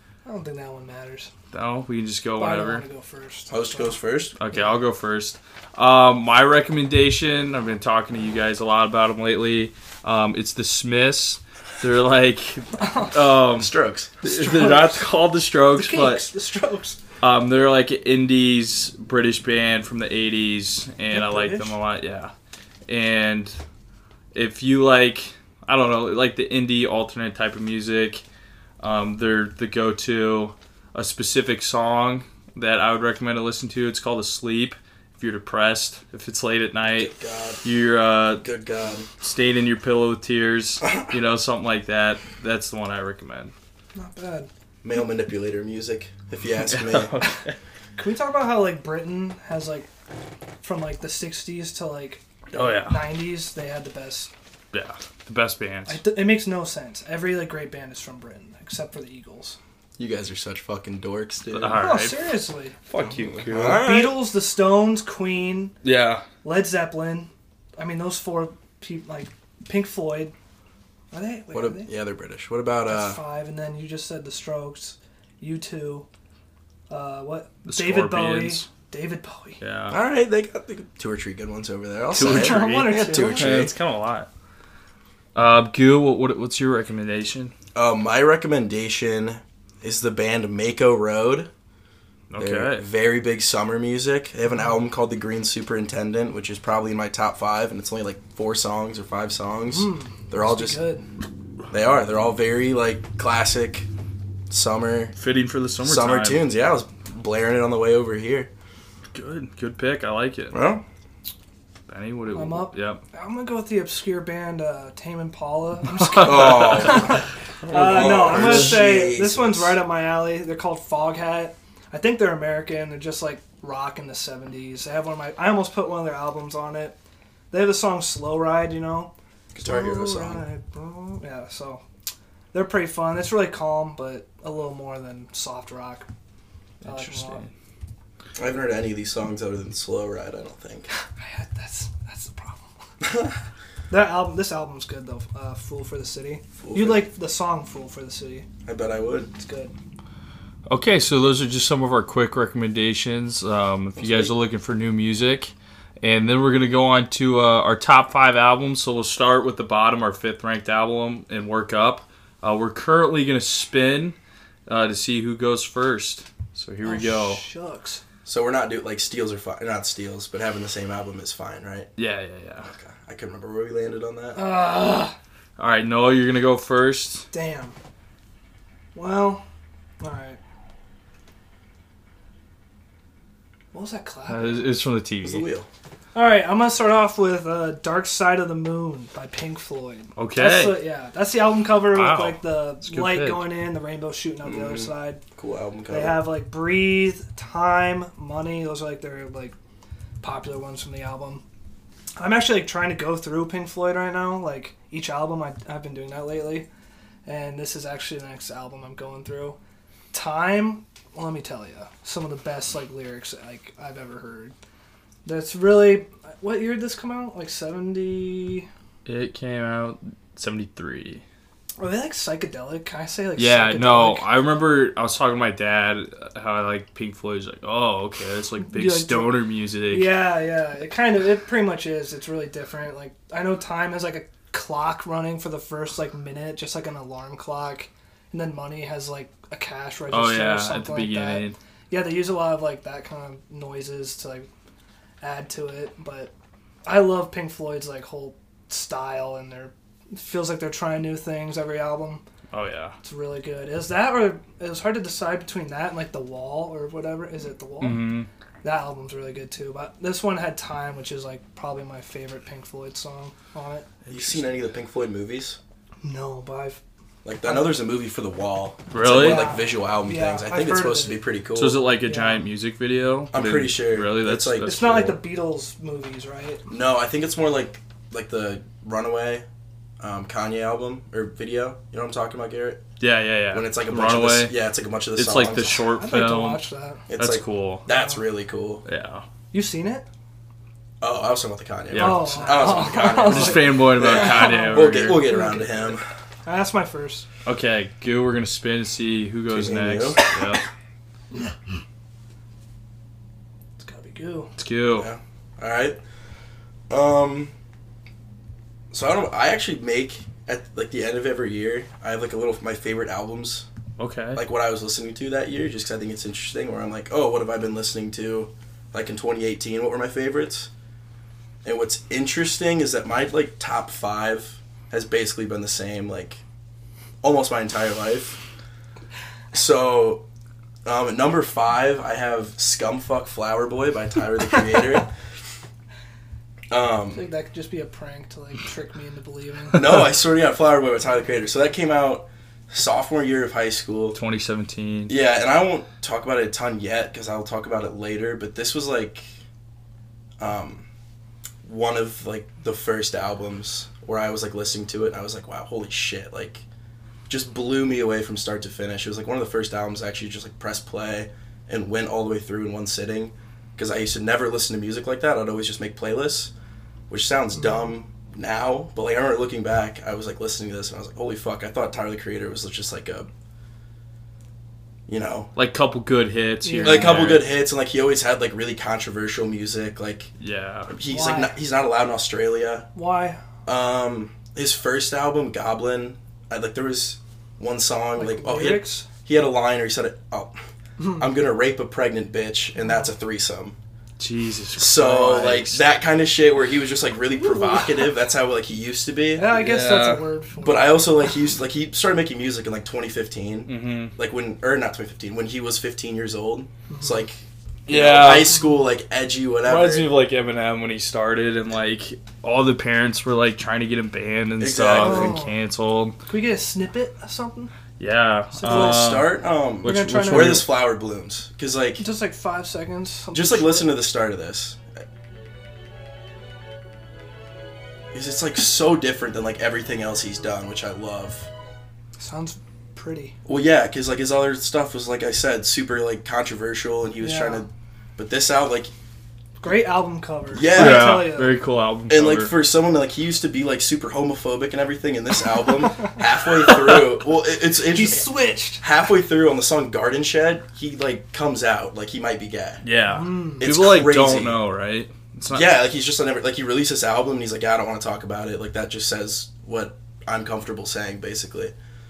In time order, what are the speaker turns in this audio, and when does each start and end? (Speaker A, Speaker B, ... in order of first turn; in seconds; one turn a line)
Speaker A: 0.2-1.3
Speaker B: 1.5-2.8
Speaker A: 2.4-4.0
Speaker C: 3.5-4.4
Speaker B: 4.4-16.2
Speaker A: 12.8-13.2
Speaker C: 13.5-14.2
Speaker A: 14.2-15.1
Speaker A: 15.7-17.0
Speaker B: 17.2-22.3
Speaker A: 21.1-21.8
Speaker B: 22.9-23.6
Speaker B: 24.3-28.2
Speaker B: 28.8-37.1
Speaker C: 36.9-37.6
Speaker B: 37.6-38.4
Speaker C: 38.4-39.1
Speaker B: 39.2-43.5
Speaker A: 43.9-44.5
Speaker C: 44.8-47.2
Speaker B: 46.7-47.5
Speaker A: 48.0-49.9
Speaker A: 50.6-52.2
Speaker B: 52.5-53.1
Speaker A: 52.9-54.3
Speaker B: 54.7-56.0
Speaker A: 55.9-59.6
Speaker C: 60.0-61.8
Speaker B: 61.5-62.3
Speaker A: 61.7-62.8
Speaker B: 62.9-63.9
Speaker C: 63.0-64.2
Speaker A: 63.6-65.7
Speaker B: 65.8-66.2
Speaker A: 66.4-70.3
Speaker A: 71.1-71.9
Speaker C: 71.5-73.2
Speaker A: 72.9-76.0
Speaker A: 76.9-79.6
Speaker B: 77.7-78.6
Speaker B: 79.6-80.0
Speaker C: 79.9-83.7
Speaker B: 82.1-84.3
Speaker A: 82.2-83.6
Speaker B: 85.3-87.5
Speaker C: 87.7-91.5
Speaker B: 92.3-92.8
Speaker C: 92.4-100.8
Speaker A: 99.7-101.0
Speaker C: 101.7-103.9
Speaker C: 104.5-105.1
Speaker B: 105.2-106.4
Speaker C: 105.8-108.5
Speaker B: 109.1-110.6
Speaker C: 110.5-110.8
Speaker B: 111.9-113.0
Speaker A: 112.3-127.0
Speaker B: 116.2-117.0
Speaker C: 116.2-119.8
Speaker B: 117.8-118.5
Speaker A: 127.5-131.8
Speaker C: 129.5-130.4
Speaker A: 132.5-136.1
Speaker B: 136.8-137.5
Speaker A: 136.8-137.4
Speaker C: 138.3-140.9
Speaker A: 141.2-142.7
Speaker C: 143.0-143.3
Speaker A: 143.9-148.5
Speaker C: 146.6-147.0
Speaker C: 148.6-149.3
Speaker A: 149.4-149.7
Speaker B: 150.7-167.4
Speaker C: 154.0-154.3
Speaker A: 166.8-168.0
Speaker C: 168.2-171.9
Speaker B: 172.0-172.7
Speaker C: 172.6-174.6
Speaker A: 174.3-175.2
Speaker B: 175.6-177.3
Speaker A: 177.3-177.8
Speaker A: 178.9-179.4
Speaker A: 180.0-180.4
Speaker A: 183.7-184.7
Speaker B: 184.3-185.4
Speaker C: 185.2-185.7
Speaker A: 186.1-195.2
Speaker B: 190.2-190.8
Speaker B: 191.9-193.5
Speaker C: 194.4-196.2
Speaker A: 195.9-199.6
Speaker A: 200.2-201.4
Speaker A: 202.2-206.7
Speaker A: 207.2-209.6
Speaker A: 210.1-214.5
Speaker A: 215.2-218.7
Speaker B: 219.0-221.2
Speaker A: 221.8-224.3
Speaker B: 223.3-230.2
Speaker A: 228.6-244.5
Speaker B: 240.1-241.5
Speaker A: 245.2-246.3
Speaker A: 246.8-252.2
Speaker B: 252.5-252.9
Speaker A: 253.0-258.1
Speaker B: 257.8-258.3
Speaker A: 258.6-263.9
Speaker B: 264.0-264.5
Speaker C: 264.1-265.6
Speaker A: 266.0-266.8
Speaker C: 267.2-271.8
Speaker A: 267.4-267.7
Speaker B: 268.9-269.4
Speaker A: 269.0-271.2
Speaker B: 271.5-275.0
Speaker A: 272.0-272.5
Speaker C: 273.3-275.2
Speaker A: 274.6-276.6
Speaker C: 276.7-279.4
Speaker C: 280.0-282.8
Speaker B: 283.0-284.5
Speaker C: 283.5-285.8
Speaker B: 285.1-286.6
Speaker A: 285.7-287.0
Speaker C: 287.1-288.8
Speaker B: 287.1-287.8
Speaker A: 287.9-288.2
Speaker B: 288.8-289.2
Speaker A: 289.5-290.1
Speaker C: 291.0-296.0
Speaker B: 291.9-295.3
Speaker A: 291.9-297.3
Speaker B: 297.4-300.6
Speaker C: 299.5-300.2
Speaker A: 303.8-304.5
Speaker B: 304.6-305.1
Speaker C: 304.9-306.0
Speaker C: 306.9-307.5
Speaker C: 308.9-313.6
Speaker B: 314.0-314.4
Speaker C: 314.3-320.7
Speaker C: 321.6-326.4
Speaker C: 327.2-328.4
Speaker C: 329.5-330.2
Speaker C: 330.8-335.1
Speaker C: 336.7-337.2
Speaker A: 337.1-340.1
Speaker C: 339.7-344.2
Speaker B: 344.1-345.1
Speaker C: 345.1-349.2
Speaker C: 350.4-350.9
Speaker C: 351.6-356.6
Speaker C: 357.3-366.5
Speaker C: 367.1-373.3
Speaker C: 375.1-375.5
Speaker B: 375.6-377.4
Speaker A: 376.6-377.3
Speaker C: 376.8-380.3
Speaker B: 380.4-380.9
Speaker C: 380.9-382.9
Speaker A: 381.0-381.5
Speaker A: 382.9-383.4
Speaker C: 383.6-390.6
Speaker A: 388.1-389.1
Speaker C: 391.1-393.8
Speaker B: 394.2-395.8
Speaker C: 394.8-399.5
Speaker A: 397.4-398.1
Speaker A: 399.3-401.0
Speaker B: 399.5-400.2
Speaker C: 400.6-410.1
Speaker B: 403.6-404.1
Speaker A: 406.9-407.2
Speaker B: 407.9-408.6
Speaker B: 409.6-416.2
Speaker C: 414.6-415.4
Speaker A: 414.9-415.5
Speaker A: 416.3-417.7
Speaker B: 418.0-419.3
Speaker A: 418.5-419.1
Speaker C: 418.6-422.0
Speaker A: 419.8-420.7
Speaker B: 419.8-420.7
Speaker A: 422.0-423.9
Speaker C: 423.3-425.0
Speaker C: 428.1-431.5
Speaker A: 432.2-433.4
Speaker C: 433.4-438.9
Speaker A: 437.2-437.6
Speaker A: 439.6-441.6
Speaker C: 440.5-441.3
Speaker B: 440.6-442.5
Speaker C: 442.1-448.3
Speaker A: 447.9-448.8
Speaker C: 448.8-452.8
Speaker B: 452.8-455.8
Speaker A: 453.1-453.6
Speaker C: 453.6-454.6
Speaker C: 455.5-461.7